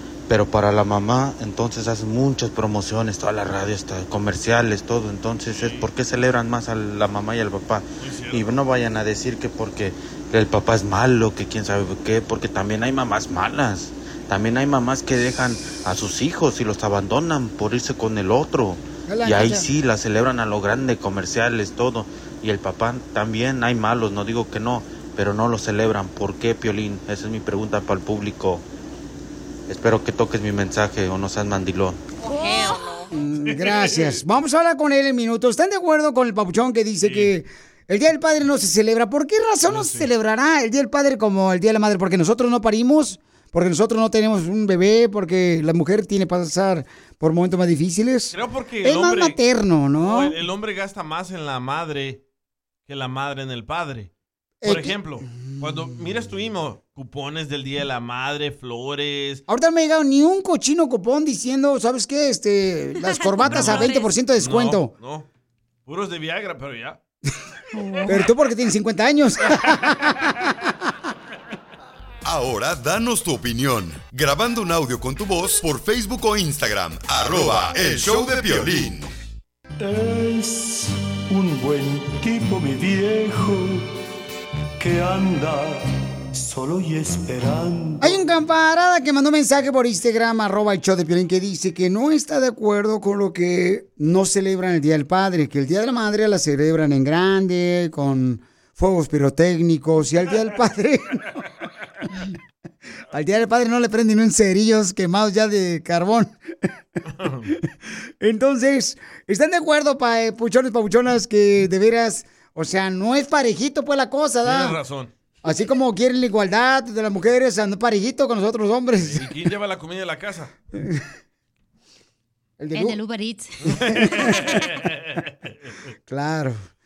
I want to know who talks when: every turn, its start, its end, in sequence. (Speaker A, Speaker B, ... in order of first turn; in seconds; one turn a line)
Speaker A: 0.3-28.6
Speaker B: 5.5-5.9
Speaker B: 8.0-8.7
Speaker C: 19.1-19.7
Speaker A: 29.7-32.0
Speaker D: 32.2-33.0
Speaker C: 33.1-50.3
Speaker B: 33.4-34.2
Speaker B: 37.0-37.3
Speaker B: 39.6-40.1
Speaker B: 48.3-49.4
Speaker B: 50.0-52.2
Speaker B: 52.9-54.1
Speaker C: 54.6-55.6
Speaker B: 54.6-59.4
Speaker C: 59.5-64.9
Speaker D: 63.0-64.1
Speaker B: 63.5-65.3
Speaker B: 65.8-67.0
Speaker C: 68.0-70.2
Speaker E: 72.2-79.1
Speaker F: 79.8-83.9
Speaker F: 84.8-88.1
Speaker C: 88.0-101.4
Speaker C: 103.1-106.3
Speaker B: 107.1-107.5
Speaker C: 108.2-114.8
Speaker B: 114.4-115.1
Speaker C: 115.4-119.2
Speaker B: 119.0-120.5
Speaker C: 120.7-121.0
Speaker C: 122.6-123.0
Speaker D: 122.7-123.8
Speaker B: 123.7-125.5
Speaker C: 123.9-124.5
Speaker C: 126.1-126.6